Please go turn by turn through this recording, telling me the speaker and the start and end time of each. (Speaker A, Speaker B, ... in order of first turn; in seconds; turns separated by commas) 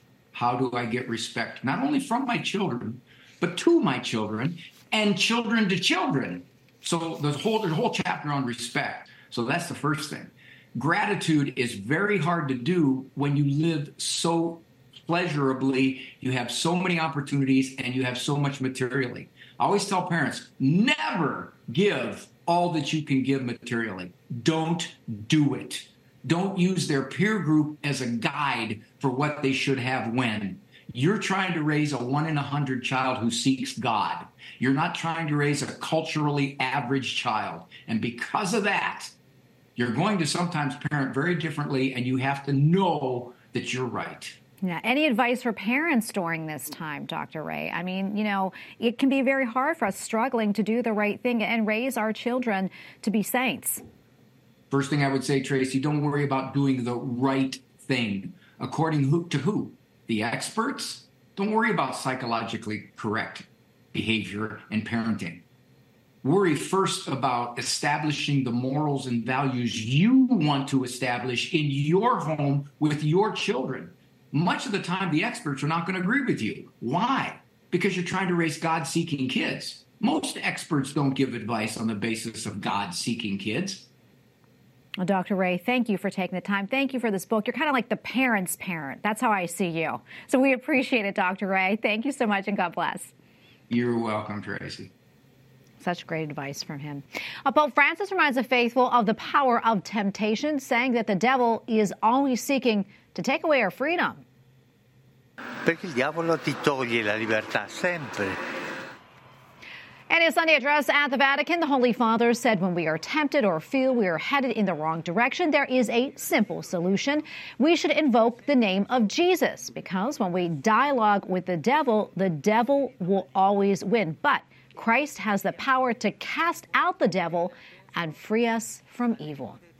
Speaker A: 0.3-39.1, Speaker A: 39.8-44.4, Speaker B: 44.6-53.8, Speaker A: 54.7-65.4, Speaker A: 66.2-83.9, Speaker B: 85.0-93.1, Speaker A: 93.7-94.9, Speaker B: 95.8-104.2, Speaker C: 105.6-108.4, Speaker B: 110.1-129.6